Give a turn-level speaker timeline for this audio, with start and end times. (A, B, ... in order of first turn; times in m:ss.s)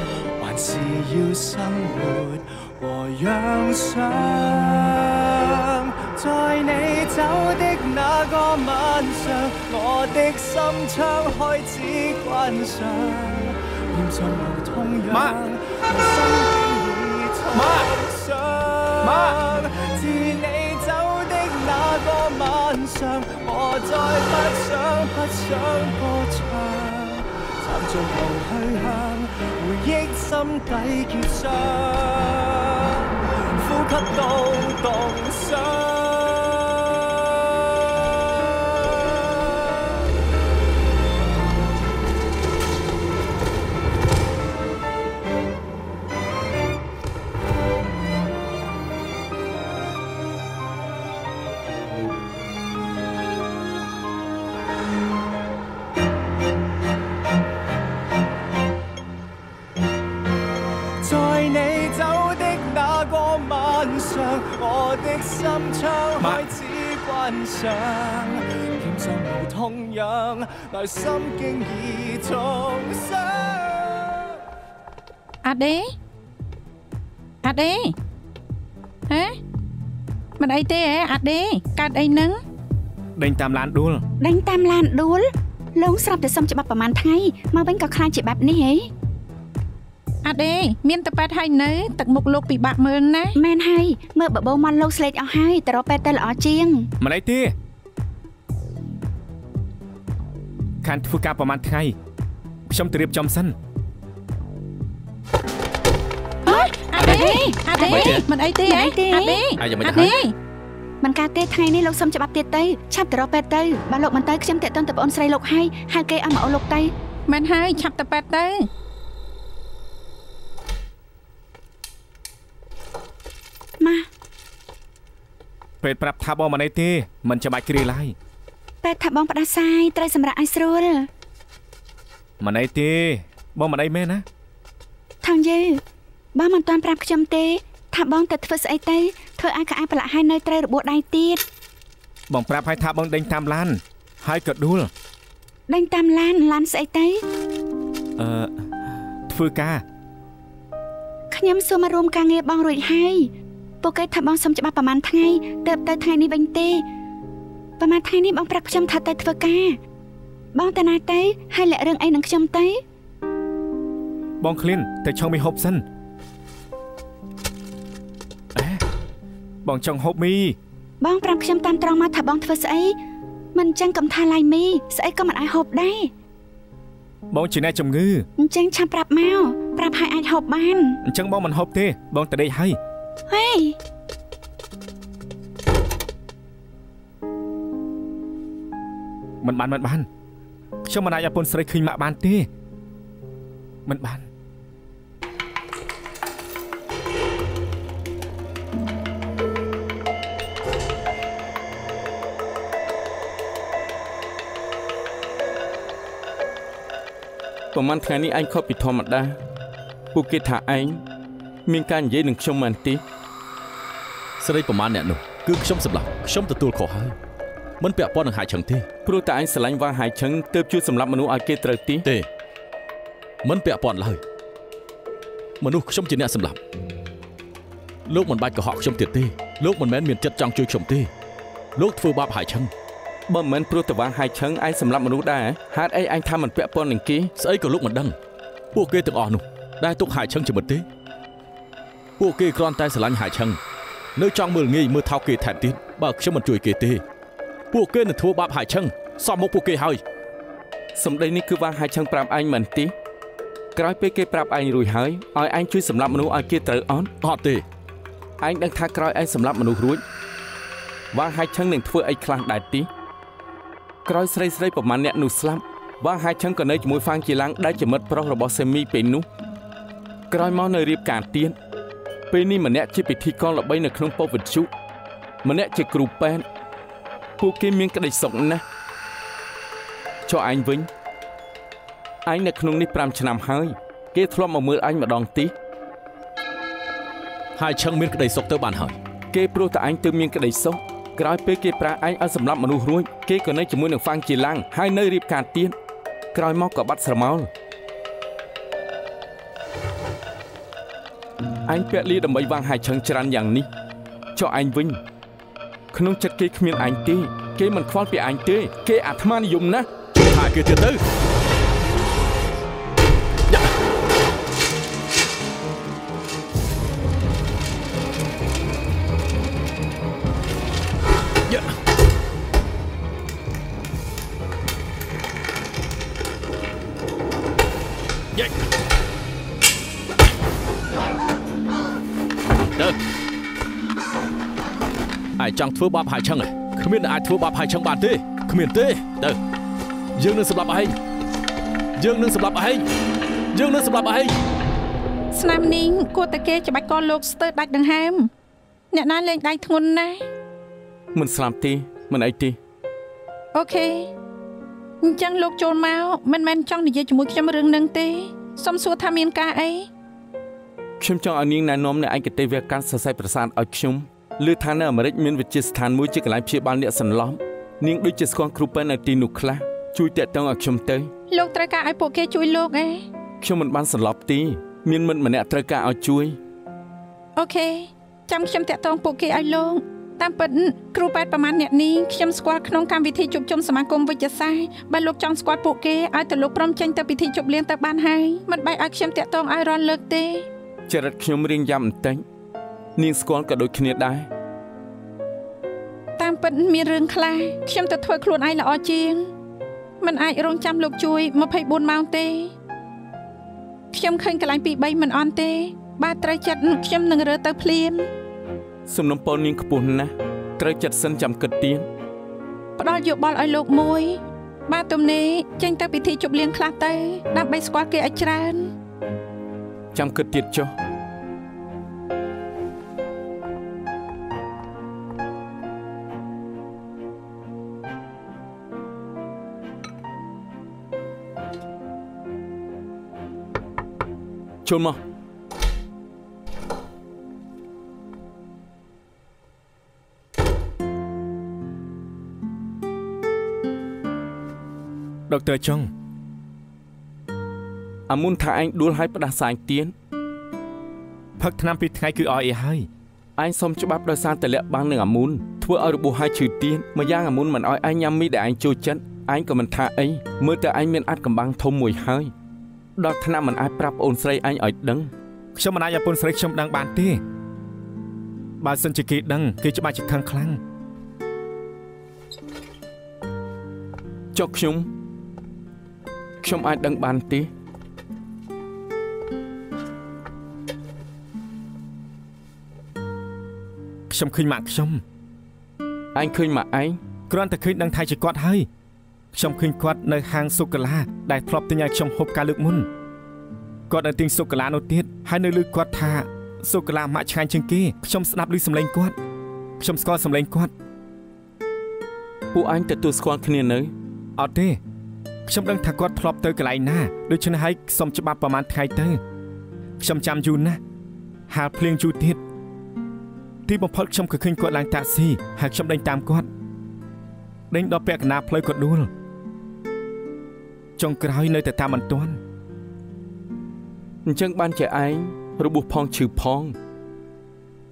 0:00.4-0:37.8 A
0:15.1-0:15.4 B
0:17.5-0:17.9 B
0:19.0-0:19.4 B
0:38.8-0:39.5 A
1:01.0-1:14.4 A
1:15.4-1:15.8 C
1:17.4-1:17.9 C
1:19.1-1:19.4 C
1:20.4-1:22.4 C
1:23.2-1:24.0 B
1:24.2-1:28.9 D
1:30.2-1:33.4 C
1:33.4-1:36.9 D
1:37.0-1:37.5 B
1:40.8-1:41.9 B
1:42.7-1:43.5 B
1:46.4-1:50.3 C
1:46.5-1:49.4 D
1:47.8-1:48.2 E
1:49.6-1:50.2 E
1:51.0-1:56.9 D
1:57.3-1:58.7 C
2:03.8-2:04.1 D
2:05.8-2:08.1 B
2:08.8-2:11.1 D
2:12.4-2:14.2 B
2:15.2-2:15.8 D
2:16.3-2:21.4 D
2:22.3-2:24.9 B
2:25.7-2:27.2 D
2:28.2-2:28.7 B
2:29.3-2:29.8 B
2:31.3-2:36.8 D
2:37.8-2:39.8 D
2:40.5-2:42.8 D
2:44.4-2:45.8 B
2:48.5-2:48.8 B
2:49.6-2:50.6 B
2:51.0-2:53.0 D
2:53.5-2:56.1 D
2:57.3-2:58.2 B
2:58.4-3:01.0 D
3:01.0-3:02.8 B
3:03.3-3:03.8 D
3:09.4-3:10.1 B
3:10.8-3:12.5 B
3:13.8-3:14.3 B
3:27.7-3:29.4 F
3:30.1-3:31.0 F
3:31.7-3:33.0 F
3:34.4-3:37.2 E
3:37.8-3:38.8 E
3:39.0-3:42.0 F
3:43.4-3:44.2 E
3:45.6-3:46.6 E
3:48.1-3:51.1 E
3:51.8-3:52.7 E
3:53.3-3:57.3 F
3:57.4-3:58.1 E
3:58.7-4:00.8 E
4:02.2-4:03.6 E
4:04.2-4:07.0 E
4:07.7-4:10.0 E
4:11.0-4:12.9 F
4:13.8-4:17.1 F
4:17.2-4:17.6 E
4:18.4-4:20.0 F
4:21.1-4:22.9 F
4:24.0-4:29.2 F
4:30.3-4:31.5 F
4:32.3-4:34.7 F
4:35.4-4:36.4 F
4:37.4-4:38.6 F
4:40.3-4:40.9 F
4:42.2-4:45.5 F
4:47.6-4:49.0 E
4:49.3-4:55.7 F
4:56.3-4:57.5 F
5:01.7-5:03.7 F
5:04.3-5:05.0 F
5:05.9-5:09.9 F
5:10.2-5:11.0 E
5:21.5-5:21.7 E
5:35.4-5:39.4 E
5:40.2-5:40.9 E
5:42.0-5:42.8 E
5:43.5-5:44.3 E
5:45.3-5:48.3 C
5:48.9-5:50.2 C
5:51.1-5:52.6 F
5:53.5-5:54.1 C
5:55.0-5:59.9 C
6:01.0-6:11.1 F
6:11.3-6:13.0 C
6:13.4-6:16.4 F
6:17.4-6:30.5 C
6:30.9-6:32.2 F
6:33.0-6:34.3 F
6:36.2-6:39.3 C
6:40.0-6:42.5 C
6:43.9-6:48.1 C
6:48.9-6:51.8 F
6:52.8-6:58.7 C
6:59.9-7:00.7 F
7:14.6-7:15.0 F
7:25.3-7:25.9 B
7:28.1-7:29.9 F
7:31.4-7:32.9 B
7:33.4-7:42.3 F
7:43.0-7:45.1 F
7:45.6-7:47.2 B
7:48.6-7:50.6 B
7:54.3-7:54.9 F
7:56.4-7:57.5 F
8:04.1-8:05.0 B
8:06.1-8:07.0 F
8:07.3-8:08.7 B
8:09.3-8:12.9 B
8:13.9-8:19.2 B
8:19.8-8:20.7 B
8:22.5-8:23.9 F
8:24.4-8:24.8 B
8:25.5-8:29.2 B
8:30.0-8:30.8 B
8:31.5-8:32.4 B
8:33.6-8:36.5 B
8:37.7-8:39.1 B
8:41.0-8:42.4 B
8:44.2-8:46.7 F